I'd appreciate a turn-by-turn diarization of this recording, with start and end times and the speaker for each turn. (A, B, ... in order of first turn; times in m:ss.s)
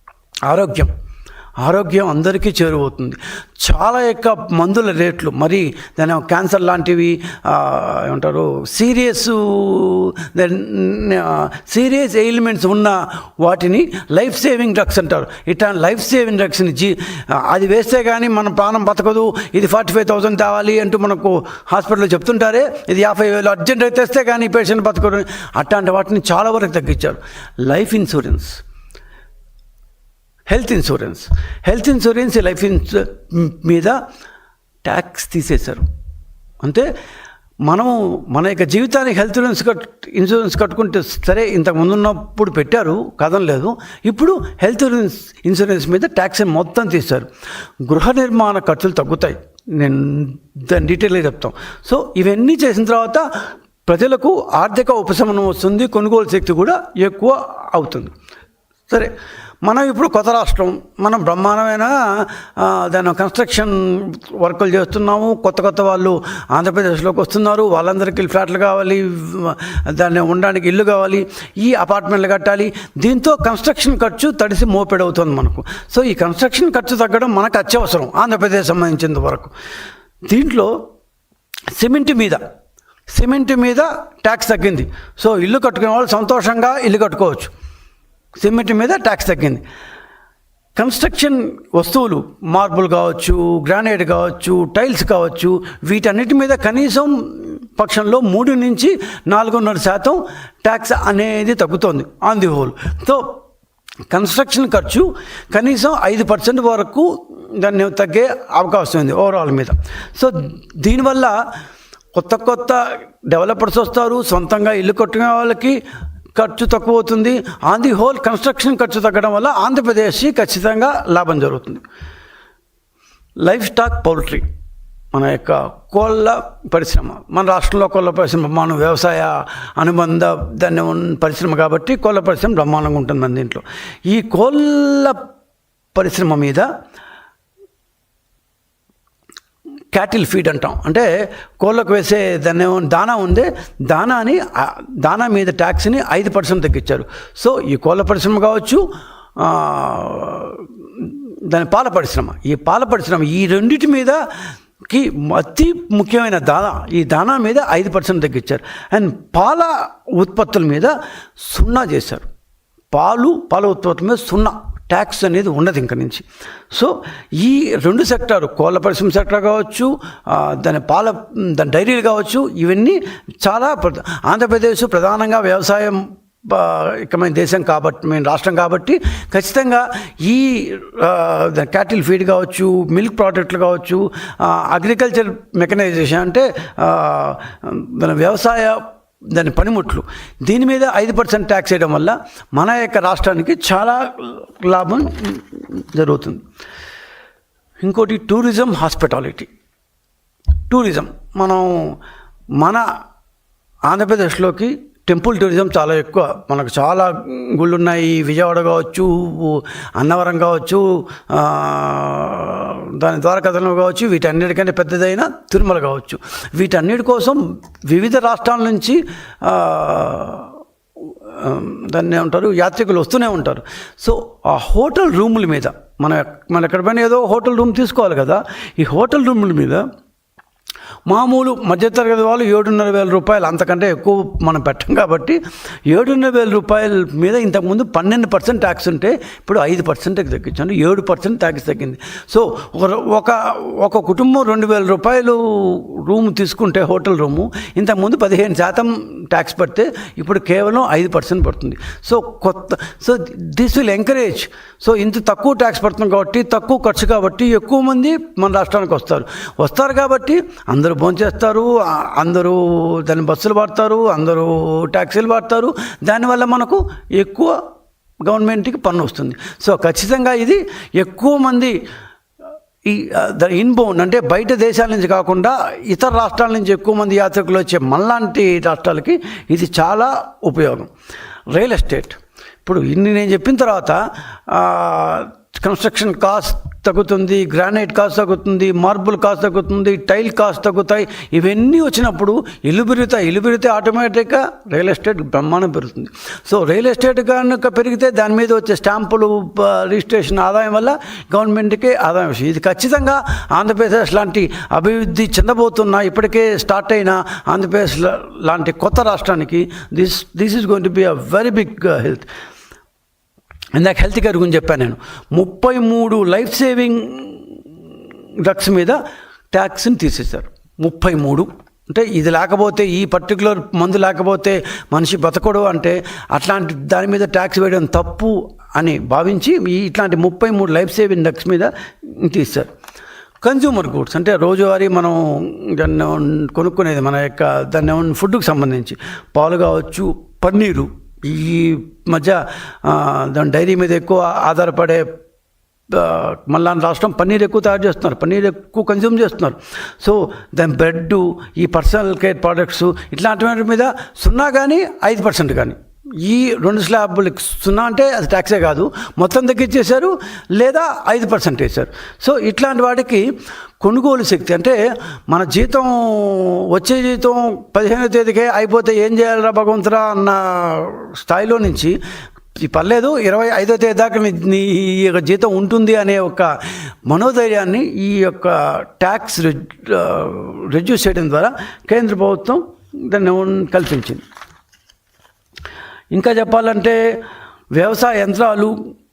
0:00.5-0:00.9 A
0:01.6-0:28.6 A
0:30.5-0:34.0 A
0:34.8-0:35.8 A
0:36.6-0:36.9 A
0:37.7-0:47.3 A
0:47.9-0:53.2 A
0:53.9-0:58.1 A
0:59.7-1:19.5 A
1:20.3-1:20.8 A
1:21.8-1:22.4 A
1:23.1-1:27.5 A
1:28.4-1:29.6 A
1:30.8-1:43.4 A
1:44.1-1:51.4 A
1:52.2-1:55.8 A
1:56.4-2:01.8 A
2:03.4-2:04.4 A
2:05.1-2:15.2 A
2:16.0-2:16.7 A
2:19.9-2:21.1 A
2:21.6-2:28.8 A
2:29.4-2:34.2 A
2:34.9-2:40.9 A
2:41.5-2:42.3 A
2:42.9-3:08.8 A
3:09.3-3:16.4 A
3:17.8-3:19.5 A
3:20.7-3:21.9 A
3:22.6-3:22.8 A
3:23.9-3:40.5 A
3:41.4-3:49.8 A
3:51.1-4:27.6 A
4:28.2-4:31.8 A
4:32.8-4:40.9 A
4:41.5-5:12.3 A
5:13.8-5:17.5 A
5:18.4-5:19.0 A
5:19.5-5:32.7 A
5:33.4-5:45.1 A
5:45.9-6:03.2 A
6:03.8-6:04.8 A
6:05.3-6:12.0 A
6:12.6-6:16.5 A
6:17.1-6:24.2 A
6:26.1-6:27.2 A
6:27.7-6:28.8 A